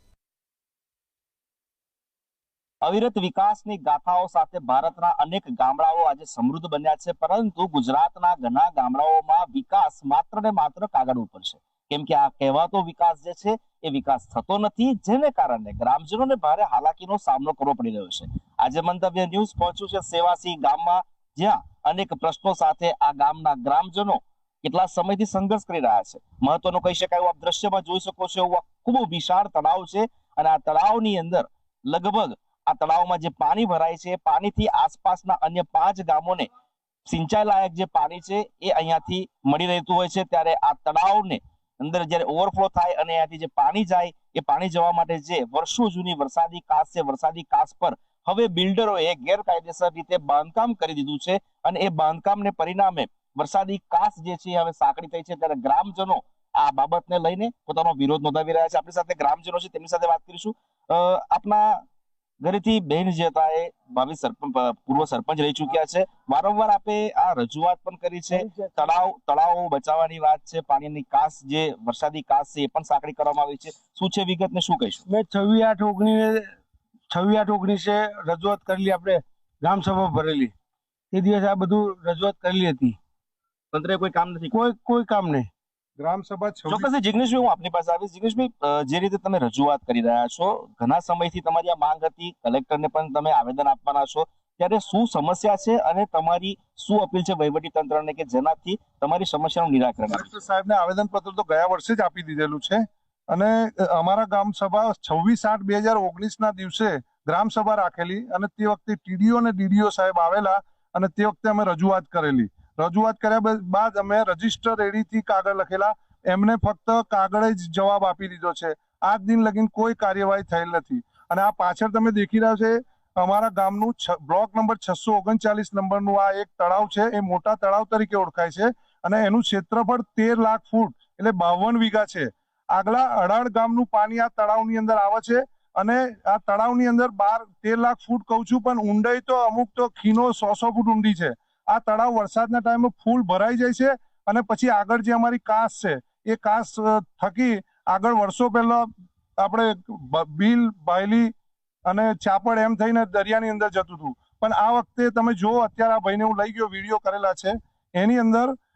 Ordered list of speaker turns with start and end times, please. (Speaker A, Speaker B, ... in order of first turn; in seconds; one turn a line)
Speaker A: 2.8-36.5
Speaker A: 37.0-61.8
Speaker A: 62.4-75.0
Speaker B: 68.3-68.9
Speaker B: 75.1-76.5
Speaker B: 77.1-80.5
Speaker B: 81.1-83.0
Speaker A: 83.7-84.5
Speaker B: 84.5-85.5
Speaker C: 86.0-86.9
Speaker A: 86.7-100.5
Speaker C: 100.1-148.9
Speaker C: 149.4-151.3
Speaker C: 151.9-158.5